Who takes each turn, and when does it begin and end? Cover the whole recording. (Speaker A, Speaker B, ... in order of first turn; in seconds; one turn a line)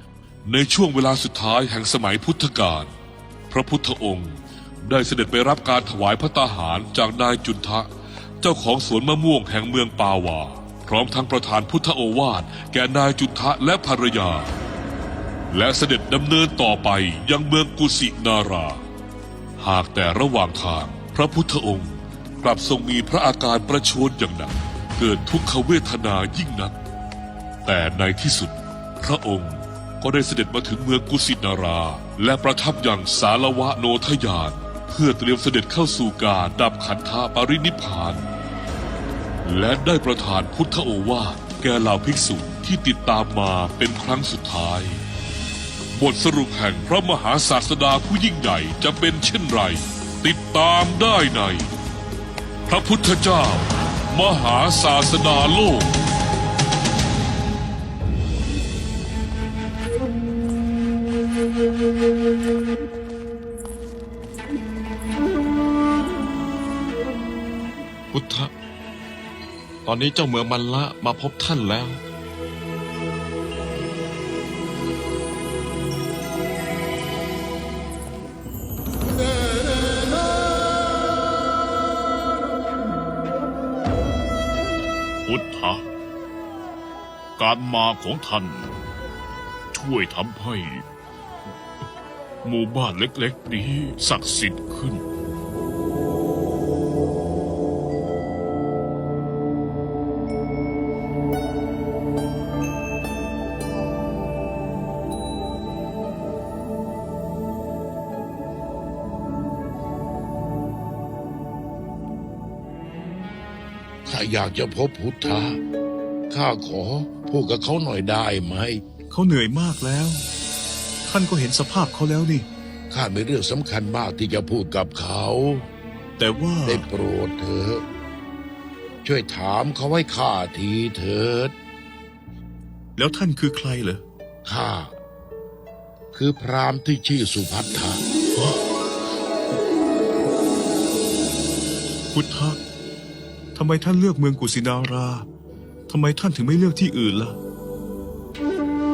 Speaker A: 0.4-2.9
Speaker A: 3.5-7.9
Speaker A: 8.4-14.5
Speaker A: 15.5-18.8
Speaker A: 19.6-26.8
Speaker A: 27.6-38.2
Speaker A: 39.4-45.0
Speaker A: 45.9-51.7
Speaker A: 52.7-55.9
Speaker B: 68.1-68.5
Speaker B: 69.8-72.0
Speaker C: 85.3-85.7
Speaker C: 87.4-88.7
Speaker C: 89.9-90.8
Speaker C: 92.5-94.7
Speaker D: 114.0-115.6
Speaker D: 116.3-118.8
Speaker E: 119.1-120.2
Speaker E: 121.0-122.5
Speaker D: 122.9-125.7
Speaker E: 126.2-126.8
Speaker D: 126.6-127.8
Speaker D: 129.0-131.5
Speaker E: 133.0-134.0
Speaker D: 134.4-134.9
Speaker D: 136.1-138.0
Speaker E: 142.1-142.6
Speaker E: 143.5-145.3
Speaker E: 145.9-147.4